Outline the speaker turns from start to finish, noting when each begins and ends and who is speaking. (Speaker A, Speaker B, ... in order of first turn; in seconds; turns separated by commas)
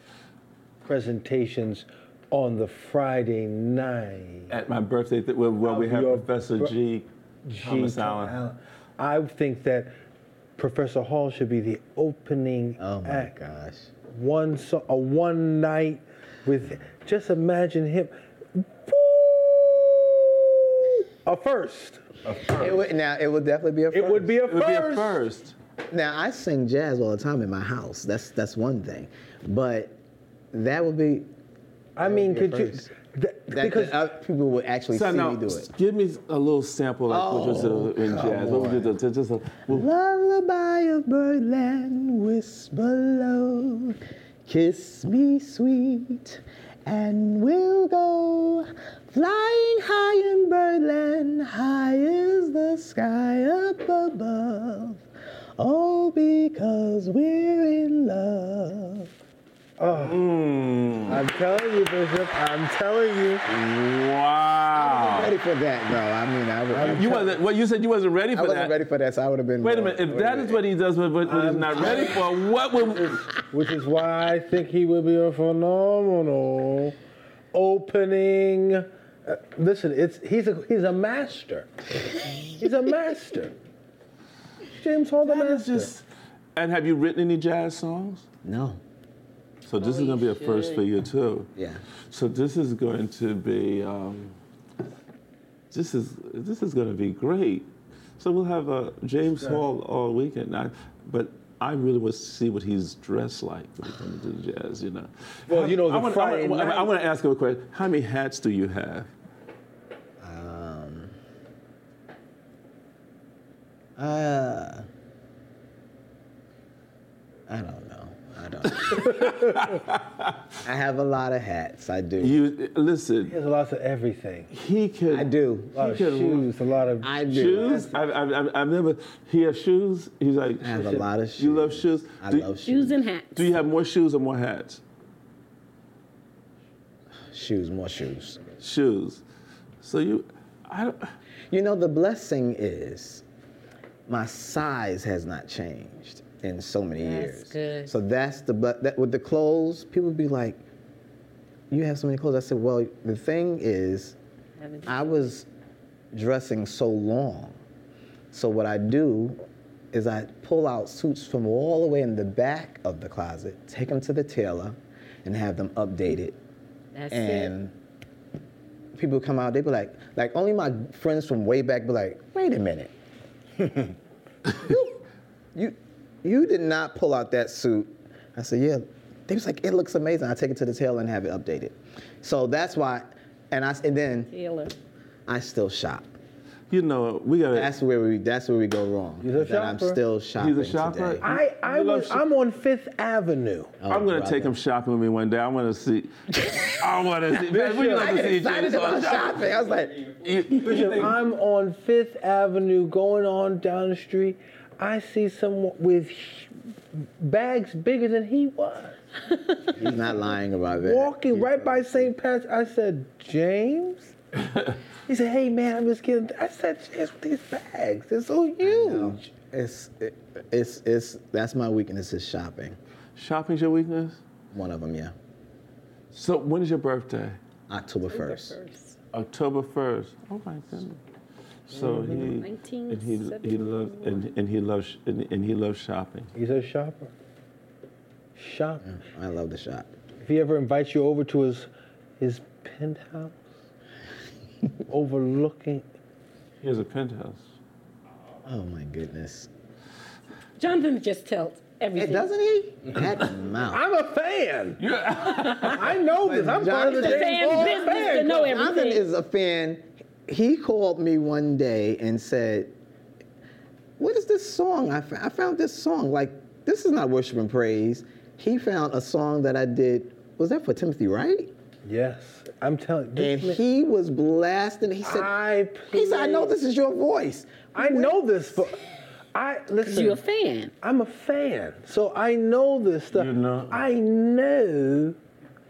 Speaker A: 0.8-4.5, Speaker B: 4.5-7.1, Speaker A: 5.6-6.7, Speaker A: 7.5-9.9, Speaker B: 7.6-8.4, Speaker A: 10.6-13.3, Speaker C: 12.8-13.9, Speaker A: 14.1-22.0, Speaker B: 22.2-22.8, Speaker C: 22.5-24.4, Speaker A: 23.9-25.2, Speaker B: 24.4-25.6, Speaker C: 25.9-30.0, Speaker C: 30.5-31.3, Speaker A: 31.9-34.0, Speaker C: 32.0-32.9, Speaker C: 33.5-35.7, Speaker B: 34.9-39.8, Speaker C: 37.1-38.9, Speaker C: 39.7-55.0, Speaker C: 55.6-59.1, Speaker A: 59.8-60.2, Speaker B: 59.9-61.2, Speaker A: 61.1-63.4, Speaker B: 63.5-65.3, Speaker C: 64.7-67.3, Speaker A: 66.7-67.2, Speaker B: 66.8-68.7, Speaker C: 68.3-70.6, Speaker B: 69.6-73.3, Speaker A: 71.2-72.3, Speaker A: 72.9-77.0, Speaker A: 77.5-81.7, Speaker A: 82.4-83.5, Speaker A: 84.7-85.9, Speaker B: 85.2-86.0, Speaker B: 86.5-88.2, Speaker C: 88.4-88.8, Speaker B: 89.7-91.5, Speaker D: 89.8-90.8, Speaker C: 91.5-91.8, Speaker B: 92.1-94.3, Speaker B: 95.7-109.1, Speaker A: 105.5-106.9, Speaker C: 110.2-111.1, Speaker C: 114.0-114.9, Speaker C: 117.5-119.3, Speaker B: 118.7-120.4, Speaker C: 120.6-122.4, Speaker B: 122.2-123.3, Speaker A: 123.3-124.5, Speaker B: 124.5-126.5, Speaker C: 125.1-125.9, Speaker A: 125.8-127.9, Speaker C: 127.0-127.9, Speaker B: 127.3-132.5, Speaker C: 130.6-133.0, Speaker D: 132.6-133.5, Speaker B: 133.3-134.8, Speaker C: 137.3-138.4, Speaker B: 138.6-139.2, Speaker B: 139.8-141.1, Speaker C: 141.5-143.2, Speaker C: 144.1-150.6, Speaker D: 147.0-147.9, Speaker C: 151.7-154.2, Speaker D: 154.6-155.1, Speaker C: 154.8-155.5, Speaker C: 156.1-157.6, Speaker C: 158.3-159.4, Speaker C: 159.9-166.4, Speaker D: 166.9-167.5, Speaker C: 167.1-167.7, Speaker C: 168.9-172.9, Speaker C: 173.6-173.9, Speaker C: 174.5-175.0, Speaker C: 175.5-184.3, Speaker D: 184.3-184.7, Speaker C: 185.3-186.1, Speaker B: 186.7-187.7, Speaker C: 187.5-191.3, Speaker A: 189.2-190.0, Speaker B: 190.4-192.2, Speaker A: 191.2-193.8, Speaker C: 193.8-194.6, Speaker B: 193.9-199.4, Speaker C: 196.3-196.7, Speaker A: 197.4-198.2, Speaker C: 197.9-200.1, Speaker B: 200.2-201.2, Speaker A: 200.6-209.0, Speaker C: 209.7-212.1, Speaker A: 210.8-214.1, Speaker A: 215.1-219.2, Speaker C: 218.6-222.8, Speaker B: 223.2-224.2, Speaker C: 224.5-225.1, Speaker B: 226.1-227.4, Speaker C: 227.7-228.6, Speaker D: 228.1-228.9, Speaker B: 229.1-231.0, Speaker B: 231.7-236.3, Speaker A: 231.7-232.3, Speaker D: 232.2-234.3, Speaker A: 236.3-237.1, Speaker A: 238.3-238.9, Speaker C: 238.8-239.9, Speaker A: 240.2-241.7, Speaker A: 242.2-243.4, Speaker A: 244.9-245.8, Speaker B: 246.6-247.5, Speaker C: 248.4-249.5, Speaker D: 250.6-252.3, Speaker C: 251.9-253.8, Speaker A: 253.7-254.8, Speaker B: 254.8-256.0, Speaker D: 255.4-255.7, Speaker A: 255.7-258.5, Speaker C: 256.2-262.7, Speaker D: 256.9-259.0, Speaker C: 264.0-271.5, Speaker A: 271.9-273.6, Speaker C: 273.1-275.3, Speaker A: 275.0-276.5, Speaker C: 275.9-278.4, Speaker A: 277.8-278.8, Speaker A: 279.3-280.2, Speaker D: 279.8-280.7, Speaker A: 280.8-285.2, Speaker B: 283.1-283.8